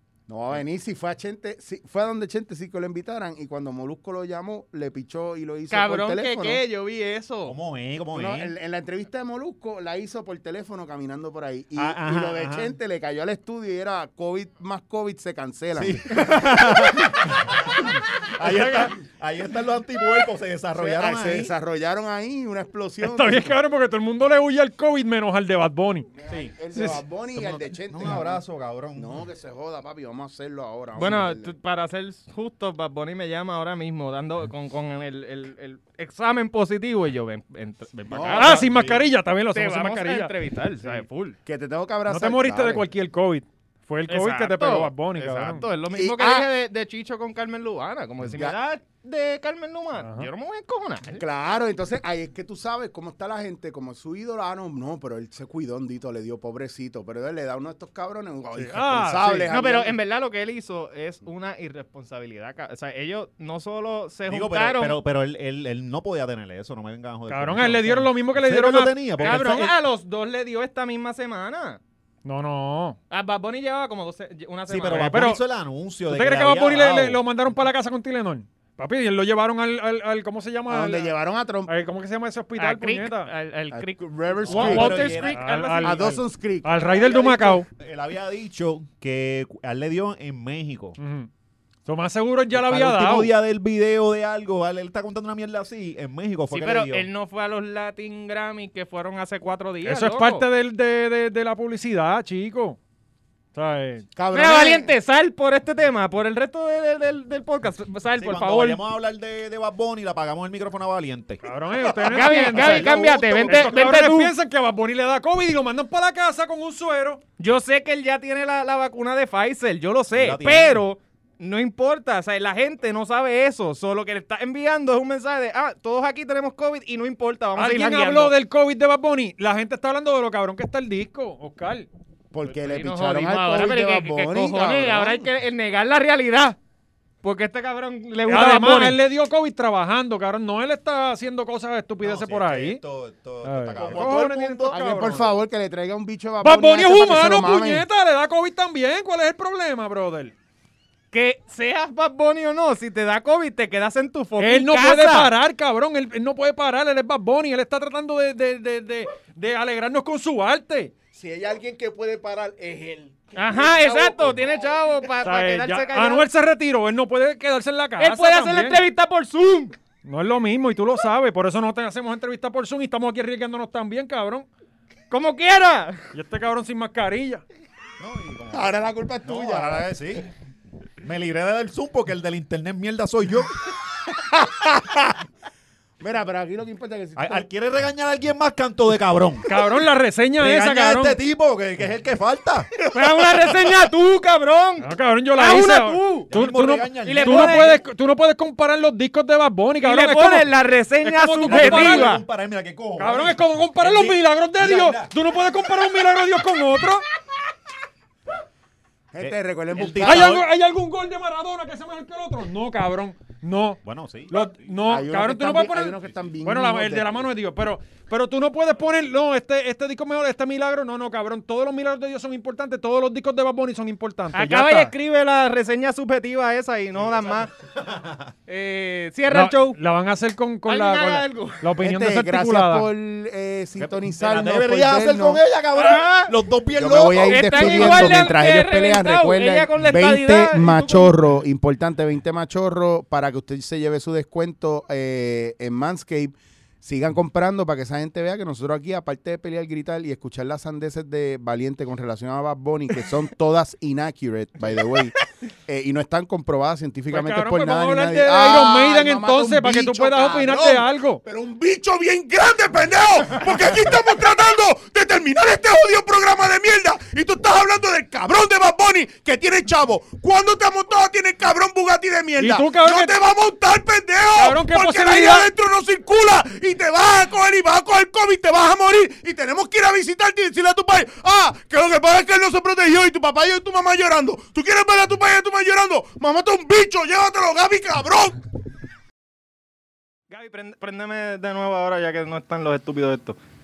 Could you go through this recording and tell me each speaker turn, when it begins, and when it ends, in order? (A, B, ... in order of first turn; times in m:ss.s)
0:00.3-0:06.6 A
0:05.7-0:07.5 B
0:07.4-0:08.5 C
0:08.1-0:17.3 A
0:11.7-0:12.8 C
0:15.7-0:21.5 C
0:18.4-0:18.9 D
0:20.7-0:23.5 A
0:23.0-0:26.1 D
0:26.2-0:28.4 A
0:26.3-0:26.8 C
0:27.3-0:29.2 C
0:28.9-0:31.5 A
0:30.9-0:38.7 B
0:38.1-0:38.6 A
0:38.3-0:40.3 D
0:38.3-0:39.0 C
0:39.5-0:41.4 B
0:41.4-0:42.8 A
0:42.1-0:45.6 D
0:44.1-0:51.2 B
0:45.9-0:46.5 A
0:50.0-0:50.3 D
0:51.2-0:59.9 A
0:58.6-0:59.5 D
0:59.5-1:05.0 B
1:04.3-1:09.7 C
1:07.3-1:09.4 D
1:09.2-1:11.8 B
1:12.2-1:13.0 D
1:13.1-1:15.2 B
1:14.7-1:17.2 C
1:14.9-1:15.4 D
1:16.1-1:21.1 D
1:20.7-1:21.7 A
1:21.7-1:23.3 D
1:22.6-1:26.2 B
1:23.7-1:25.2 A
1:24.4-1:25.5 C
1:25.3-1:27.6 D
1:25.8-1:27.6 A
1:27.8-1:31.0 C
1:31.0-1:31.3 D
1:31.8-1:33.3 D
1:32.5-1:37.1 C
1:36.5-1:40.4 B
1:39.8-1:42.8 D
1:43.5-1:44.0 D
1:44.2-1:44.9 A
1:44.3-1:48.8 B
1:48.2-1:51.4 C
1:51.4-1:57.2 D
1:52.0-1:54.3 B
1:52.2-1:53.7 A
1:52.6-1:52.9 C
1:57.4-2:08.3 B
2:00.1-2:00.8 C
2:07.6-2:11.9 D
2:12.3-2:15.2 A
2:12.4-2:16.6 B
2:17.2-2:19.0 B
2:18.3-2:22.8 D
2:22.0-2:25.2 C
2:23.4-2:25.4 D
2:24.7-2:27.8 A
2:26.4-2:30.3 D
2:31.1-2:35.3 B
2:34.4-2:40.9 D
2:41.1-2:44.7 E
2:43.3-2:46.2 B
2:45.2-2:48.8 D
2:48.0-2:49.7 B
2:50.0-2:54.5 D
2:55.1-2:56.1 B
2:56.1-2:57.4 D
2:58.0-3:00.3 C
2:58.5-2:59.9 A
3:01.0-3:03.6 C
3:04.3-3:05.2 A
3:06.0-3:07.4 A
3:07.2-3:09.6 C
3:09.4-3:11.2 D
3:10.4-3:12.7 C
3:12.9-3:16.3 B
3:14.8-3:22.2 D
3:16.3-3:17.7 C
3:17.0-3:17.8 B
3:19.8-3:22.2 B
3:21.4-3:25.1 C
3:23.0-3:27.0 D
3:29.1-3:30.4 A
3:29.2-3:30.5 C
3:30.0-3:44.9 D
3:33.8-3:34.4 C
3:34.8-3:37.3 A
3:44.3-3:47.5 B
3:46.9-3:48.3 C
3:48.5-3:49.8 B
3:49.3-3:52.9 D
3:50.6-3:51.7 B
3:51.8-3:55.4 A
3:53.8-3:58.3 C
3:55.7-3:56.3 B
3:56.7-4:48.4 A
3:57.2-4:01.2 B
4:17.1-4:21.2 D
4:32.4-4:33.2 D
4:34.4-4:35.5 D
4:50.3-4:53.4 B